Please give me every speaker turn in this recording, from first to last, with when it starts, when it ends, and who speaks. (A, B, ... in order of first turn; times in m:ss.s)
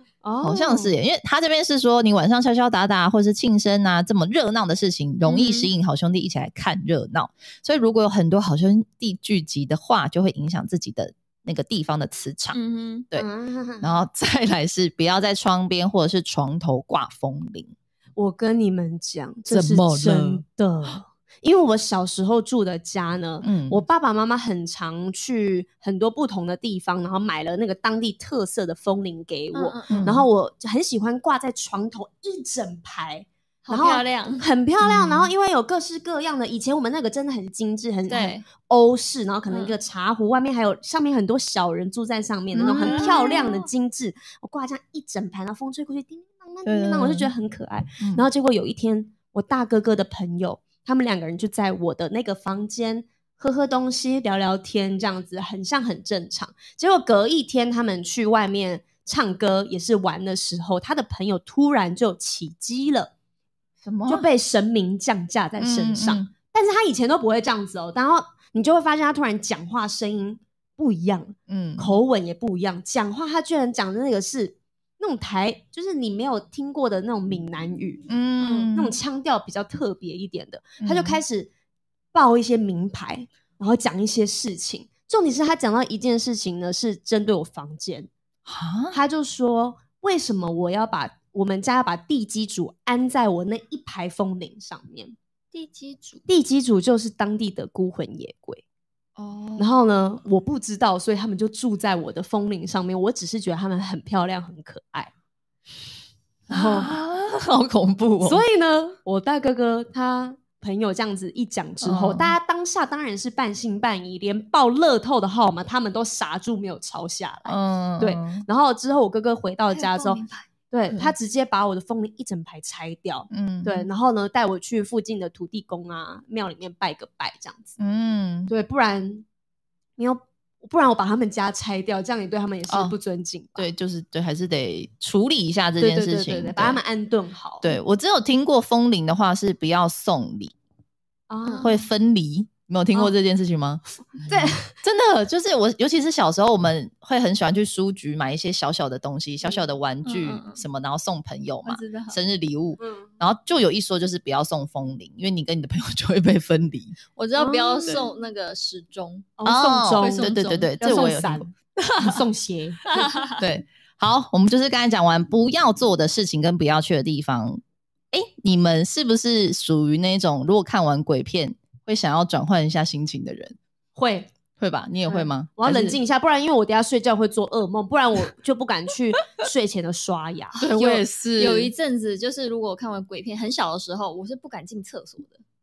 0:00.2-0:00.9 A
0:00.4-0:12.6 B
0:05.2-0:05.7 C
0:12.5-0:13.1 C
0:13.1-0:14.0 A
0:13.8-0:17.7 B
0:18.2-1:03.1 A
0:19.5-0:20.4 B
0:23.4-0:23.8 B
0:29.5-0:30.1 C
0:29.9-0:30.3 B
0:33.6-0:34.4 C
0:34.8-0:35.3 B
0:38.1-0:38.4 C
0:39.5-0:39.8 C
0:42.5-0:43.4 B
0:42.7-0:43.7 C
0:46.6-0:47.3 B
0:48.0-0:48.3 B
1:03.8-1:04.2 B
1:04.1-1:18.1 A
1:05.6-1:06.3 B
1:11.5-1:11.9 B
1:18.1-1:19.0 B
1:18.4-1:18.7 C
1:18.7-1:21.5 A
1:20.8-1:21.2 B
1:22.1-1:28.1 A
1:28.5-1:29.0 B
1:28.9-1:35.1 A
1:35.5-1:36.2 C
1:36.3-1:38.6 A
1:39.2-1:39.7 C
1:39.6-1:45.1 A
1:46.5-1:46.9 A
1:46.5-1:48.4 B
1:48.2-2:07.8 A
1:51.8-1:52.4 B
1:57.5-1:58.4 B
1:59.7-2:00.5 C
2:03.3-2:03.9 B
2:07.8-2:08.5 B
2:08.5-2:09.2 A
2:10.0-2:13.7 A
2:12.7-2:13.0 B
2:13.6-2:16.8 B
2:15.8-2:17.7 A
2:17.6-2:20.5 B
2:21.3-2:21.8 A
2:21.6-2:23.8 B
2:24.1-2:24.7 A
2:24.7-2:37.0 B
2:30.0-2:30.6 C
2:31.6-2:32.2 C
2:32.8-2:33.1 A
2:37.1-2:39.4 C
2:37.4-2:38.0 A
2:39.4-2:43.2 A
2:39.4-2:42.2 B
2:39.9-2:40.8 C
2:42.9-2:43.4 C
2:43.4-2:53.6 B
2:54.0-2:54.3 A
2:54.6-2:56.0 B
2:55.1-3:00.7 A
3:00.6-3:01.7 B
3:00.6-3:05.4 C